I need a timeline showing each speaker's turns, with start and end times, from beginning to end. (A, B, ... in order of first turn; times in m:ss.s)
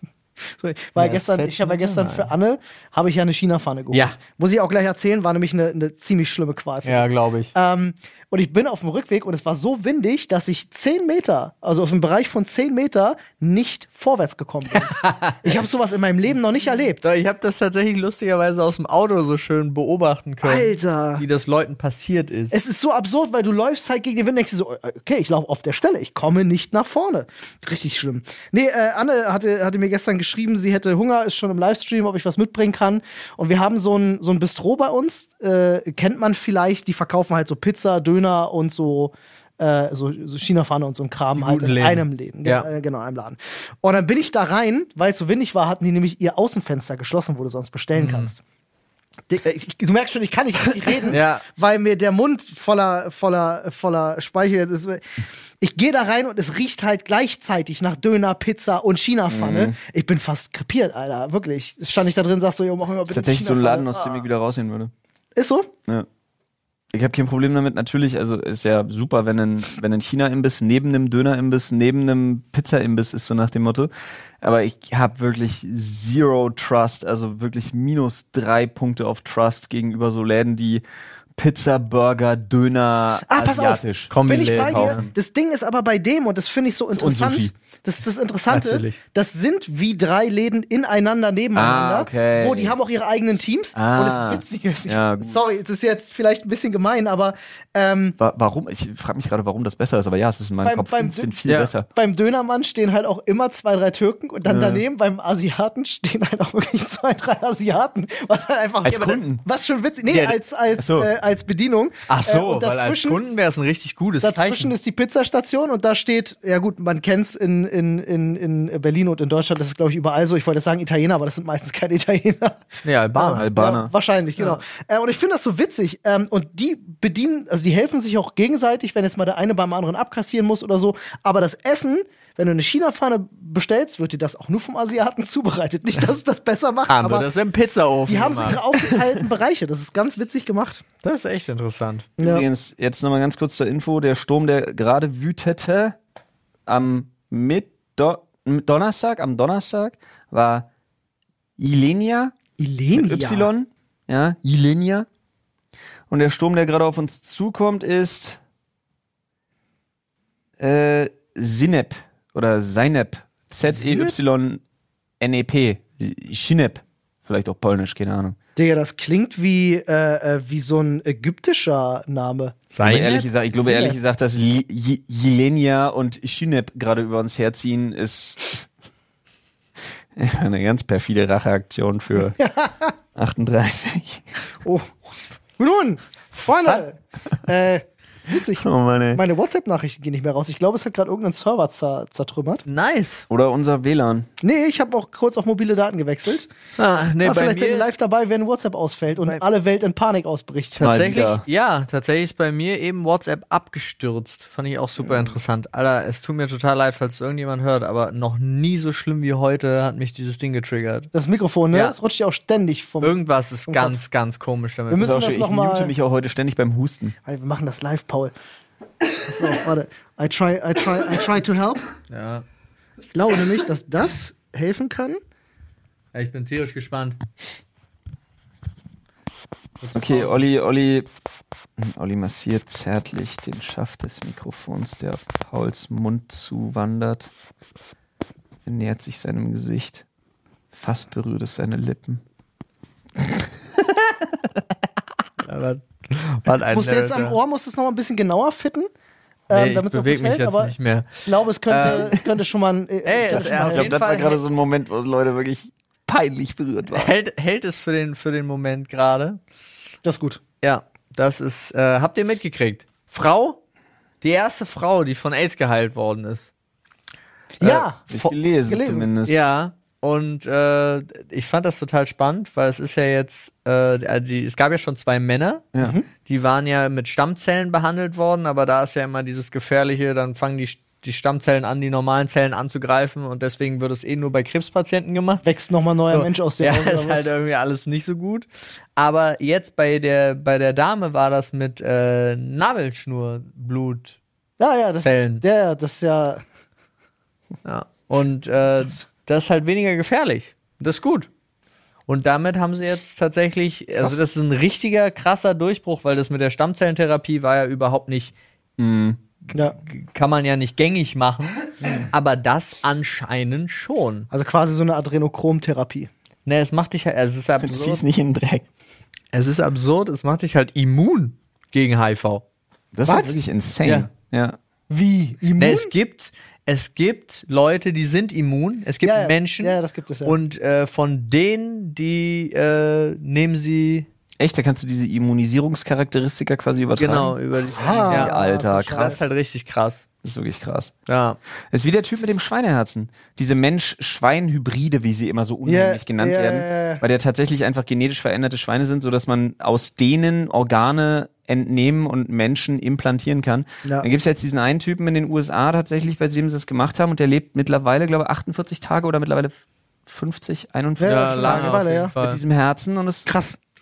0:00.6-0:17.0 A
0:01.0-0:02.3 B
0:06.8-0:07.5 B
0:14.8-0:15.6 B
0:17.0-0:22.6 B
0:20.4-0:21.2 A
0:22.5-0:48.4 A
0:41.4-0:42.7 B
0:48.0-0:48.3 B
0:49.3-0:55.0 A
0:51.1-0:51.4 B
0:55.6-1:04.2 A
0:59.3-0:59.8 C
1:03.1-1:04.9 C
1:05.4-1:05.7 A
1:06.9-1:13.9 C
1:14.4-1:20.8 C
1:21.4-1:25.1 C
1:23.3-1:38.2 A
1:24.1-1:25.0 B
1:27.0-1:27.5 C
1:28.5-1:29.0 B
1:31.5-1:32.8 C
1:33.8-1:35.4 C
1:38.2-1:41.9 C
1:40.6-1:53.2 A
1:41.5-1:41.7 B
1:44.4-1:44.8 C
1:48.8-1:49.4 C
1:50.1-1:51.1 C
1:52.1-1:54.7 B
1:54.2-2:17.3 A
2:02.8-2:03.5 B
2:03.4-2:03.9 C
2:16.9-2:18.7 B
2:18.1-2:20.8 A
2:21.0-2:22.1 B
2:22.2-2:22.5 A
2:22.2-2:26.0 C
2:26.7-2:30.7 C
2:31.6-2:32.3 C
2:32.6-2:33.5 A
2:32.9-2:35.1 C
2:36.1-2:38.4 C
2:40.6-2:44.6 C
2:43.6-2:44.2 A
2:45.2-2:48.4 C
2:48.6-2:52.6 A
2:52.7-2:53.3 B
2:52.8-2:58.7 C
2:53.6-2:54.0 A
3:00.2-3:02.4 C
3:02.4-3:02.9 A
3:03.2-3:04.2 C
3:04.6-3:05.0 A
3:05.6-3:12.6 A
3:08.6-3:09.2 C
3:12.7-3:13.2 B
3:13.3-3:14.3 C
3:14.4-3:16.5 A
3:16.8-3:18.0 B
3:17.2-3:21.2 A
3:20.8-3:31.1 B
3:20.8-3:21.4 C
3:25.0-3:25.3 A
3:31.1-3:33.2 A
3:33.0-3:35.2 B
3:33.7-3:34.0 A
3:34.9-3:35.9 A
3:35.0-3:37.2 C
3:37.3-3:38.3 A
3:39.2-3:41.9 A
3:42.1-3:42.4 B
3:43.1-3:45.2 A
3:46.1-3:47.2 B
3:49.8-3:50.4 B
3:50.0-3:51.1 C
3:51.8-3:57.3 C
3:58.6-4:00.0 C
4:00.7-4:02.2 C
4:05.4-4:07.4 B
4:06.7-4:08.9 A
4:09.5-4:14.0 A
4:09.5-4:12.2 B
4:13.1-4:14.4 B
4:13.3-4:17.1 C
4:16.9-4:19.4 B
4:20.0-4:20.4 A
4:20.6-4:23.6 B
4:24.2-4:26.5 B
4:27.6-4:29.1 A
4:27.6-4:29.4 C
4:29.3-4:35.7 B
4:35.8-4:36.1 A
4:36.2-4:45.4 B
4:45.4-4:47.3 A
4:46.1-4:54.2 B
4:54.6-4:56.4 A
4:55.0-4:55.4 B
4:57.6-5:01.3 B
5:02.1-5:08.3 B
5:08.8-5:09.2 C
5:09.8-5:14.3 B
5:14.3-5:16.1 A
5:16.5-5:18.0 B
5:17.6-5:18.7 C
5:19.3-5:22.4 B
5:22.9-5:24.6 C
5:23.1-5:23.4 A
5:24.9-5:25.9 A
5:25.6-5:34.1 B
5:29.0-5:30.4 A
5:34.4-5:39.2 C
5:37.0-5:38.4 B
5:37.7-5:39.2 A
5:38.9-5:40.0 B
5:40.2-5:40.9 C
5:41.1-5:41.4 B
5:41.7-6:03.3 C
5:45.7-5:47.0 A
6:01.0-6:02.1 A
6:01.1-6:02.4 B
6:03.3-6:03.6 A